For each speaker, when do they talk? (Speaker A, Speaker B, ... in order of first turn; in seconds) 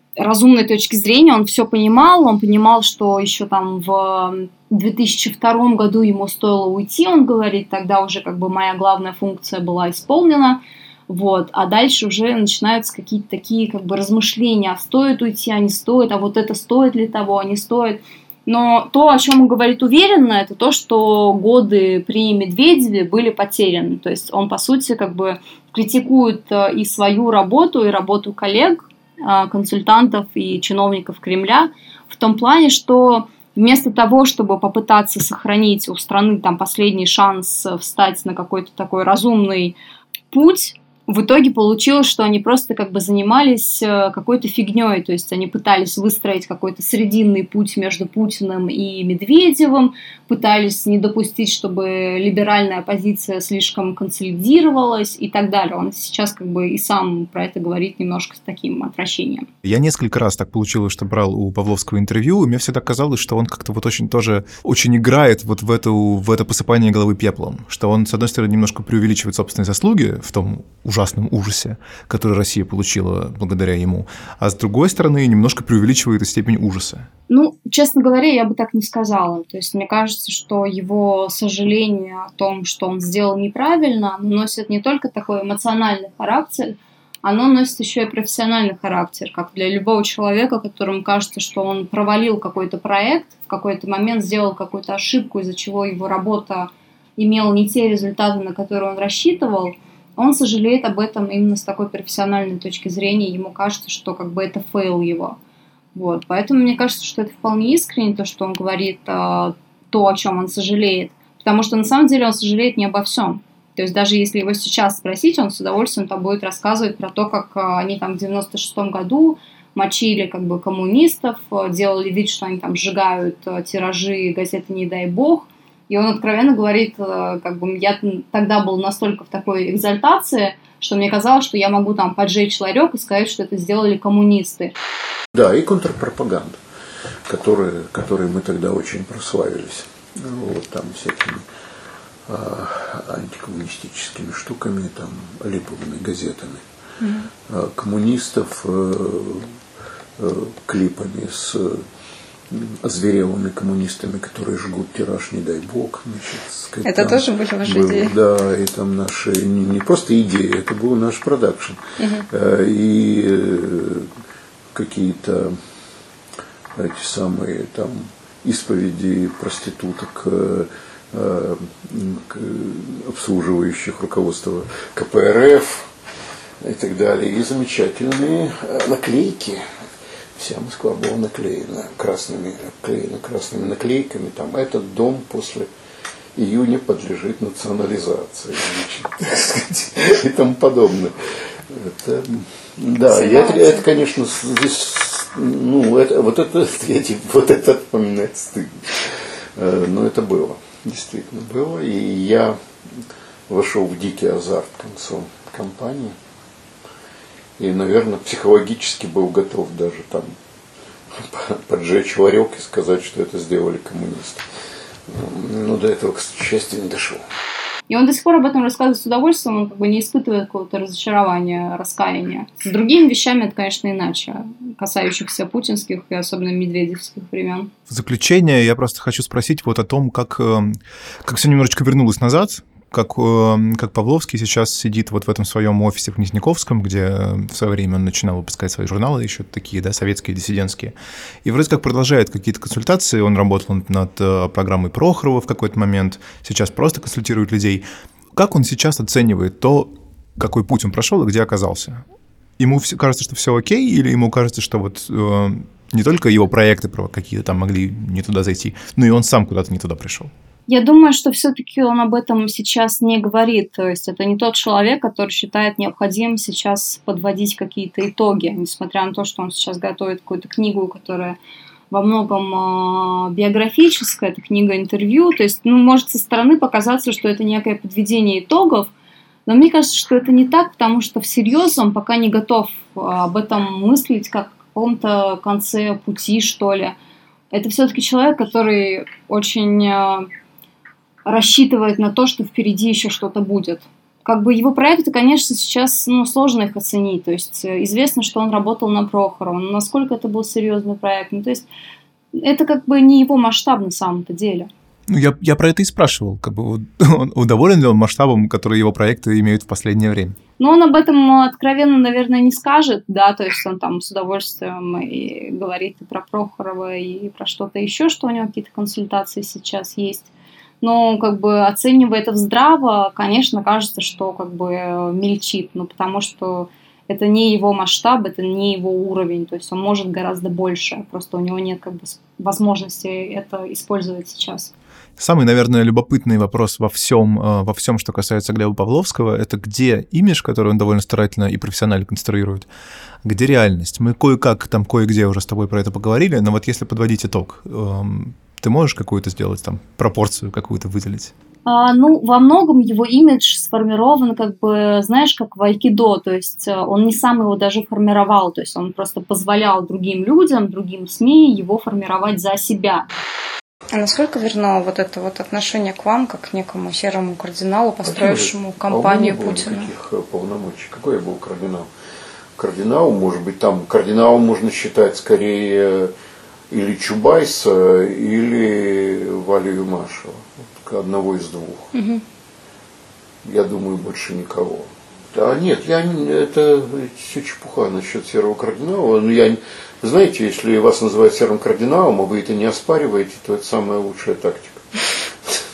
Speaker A: 0.2-39.8, 40.3-59.5, 77.3-105.4, 105.9-134.7, 147.0-147.3, 156.8-158.2, 162.0-162.3, 193.1-193.8, 217.9-227.7, 260.7-271.4, 271.9-278.9, 279.5-286.9, 287.5-290.3, 291.3-301.7, 302.4-304.7, 310.6-320.3, 320.8-334.7, 351.7-363.1, 363.9-369.9, 381.9-382.2
Speaker B: 59.6-77.1, 227.9-252.0, 252.6-260.3, 305.1-310.4, 335.2-342.7, 343.2-351.3
Speaker C: 135.3-136.6, 137.3-141.4, 142.3-146.6, 147.5-149.5, 150.2-151.8, 152.5-161.8, 162.3-164.1, 164.7-165.6, 166.8-175.9, 176.6-179.6, 180.4-185.7, 186.3-206.2, 207.6-210.4, 211.1-214.4, 215.1-217.2, 368.0-371.9, 372.6-376.1, 376.7-381.9, 383.4-394.8